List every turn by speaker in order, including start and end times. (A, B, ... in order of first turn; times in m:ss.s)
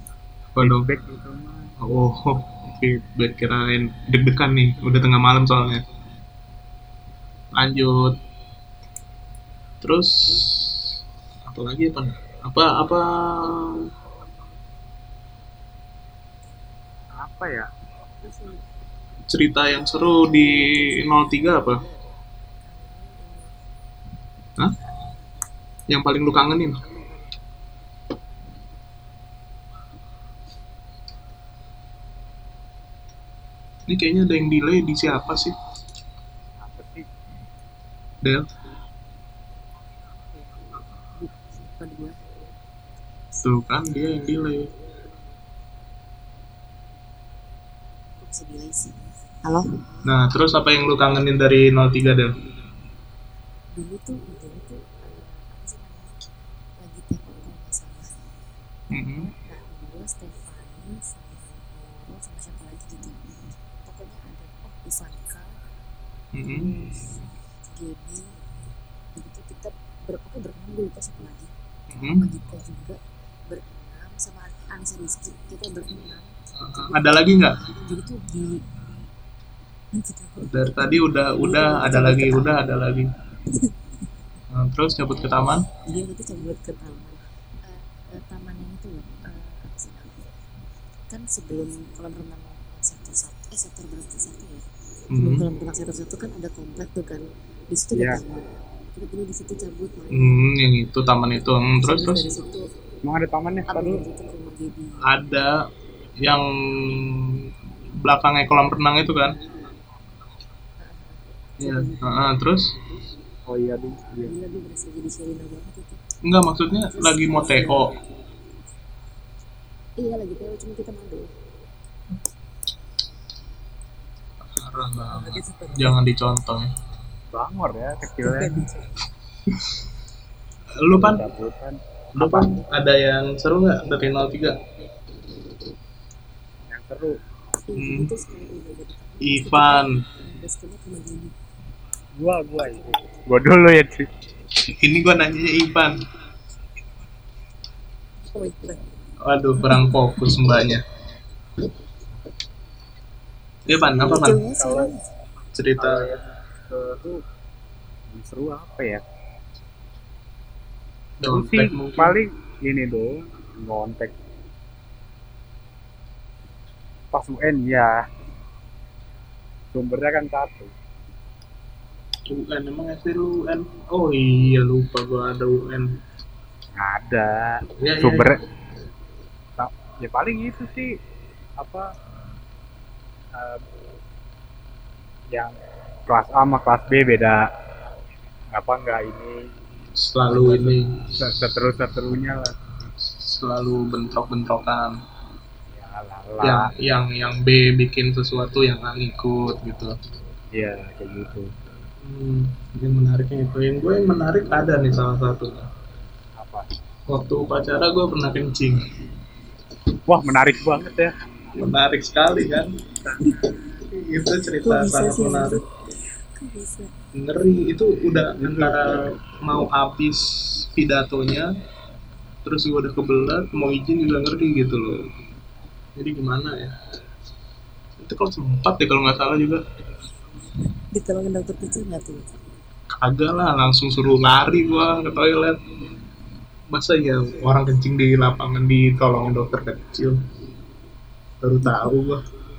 0:00.6-0:00.9 A
0:00.6-0:01.7 B
0:01.8-0:05.8 A
0:07.5-0:08.1 A
0:09.8-0:13.9 A
0:17.2-0:17.7 B
0:18.2-0:18.7 C
0:19.3-0:21.8 A
0:20.6-0:21.9 C
0:22.6-0:23.6 C
0:24.8-0:25.3 C
0:25.9-0:26.8 A
0:26.8-0:27.3 C
0:33.9-0:35.5 A
0:36.6-0:37.1 B
0:41.2-0:42.2 C
0:43.4-0:44.7 A
0:48.2-0:50.1 C
0:50.0-0:52.3 A
0:53.7-0:56.2 C
0:56.8-0:58.1 C
0:58.9-0:59.3 A
0:59.2-1:03.2 C
1:03.8-1:05.6 C
1:06.3-1:06.7 A
1:06.4-1:07.1 C
1:07.6-1:08.4 C
1:09.1-1:18.7 C
1:11.9-1:12.2 A
1:16.6-1:17.6 A
1:19.9-1:22.7 C
1:20.5-1:23.1 A
1:24.5-1:25.7 A
1:25.1-1:30.2 C
1:31.1-1:40.5 C
1:35.1-1:35.4 A
1:37.9-1:38.2 B
1:40.1-1:42.2 A
1:41.8-1:42.6 C
1:43.0-1:44.0 B
1:43.7-1:45.1 C
1:45.0-1:45.5 A
1:46.2-1:47.5 A
1:48.0-1:49.4 A
1:50.8-1:52.4 C
1:51.6-1:52.7 A
1:53.5-1:54.3 B
1:54.2-1:56.0 C
1:56.2-1:57.9 A
1:56.8-1:57.9 C
2:00.0-2:01.3 C
2:04.5-2:06.7 A
2:05.0-2:06.0 C
2:07.3-2:08.6 B
2:08.2-2:09.0 C
2:10.8-2:11.2 A
2:10.9-2:12.6 B
2:12.2-2:14.6 A
2:16.7-2:17.2 B
2:17.6-2:21.3 C
2:17.8-2:18.1 A
2:19.2-2:20.0 A
2:22.2-2:24.1 B
2:22.6-2:23.3 C
2:24.7-2:26.0 A
2:28.3-2:28.8 C
2:29.2-2:30.8 A
2:29.6-2:29.9 C
2:33.7-2:34.4 A
2:33.9-2:35.0 C
2:34.5-2:34.9 B
2:35.5-2:36.0 A
2:35.8-2:37.2 B
2:38.1-2:39.0 B
2:41.2-2:42.2 A
2:41.2-2:44.2 B
2:47.1-2:48.0 B
2:49.7-2:50.7 B
2:52.3-2:56.0 A
2:56.8-2:58.4 B
2:57.8-2:58.4 A
2:59.6-3:00.9 B
3:01.6-3:01.9 B
3:03.3-3:03.6 B
3:06.1-3:07.4 B
3:08.5-3:09.4 B
3:10.0-3:11.1 A
3:10.3-3:12.6 B
3:13.1-3:15.0 A
3:15.7-3:16.7 B
3:16.4-3:19.9 A
3:20.5-3:21.5 B
3:22.0-3:25.7 A
3:26.4-3:26.7 B
3:27.1-3:28.8 A
3:30.1-3:31.1 B
3:31.5-3:32.7 A
3:33.2-3:33.5 C
3:33.9-3:35.6 A
3:34.6-3:35.6 C
3:36.4-3:36.9 C
3:37.1-3:41.5 A
3:38.4-3:39.1 B
3:42.4-3:45.0 A
3:46.0-3:46.8 A
3:48.0-3:49.6 A
3:50.9-3:52.3 C
3:52.9-3:55.6 A
3:56.7-4:00.2 A
4:01.4-4:02.2 A
4:01.6-4:01.9 C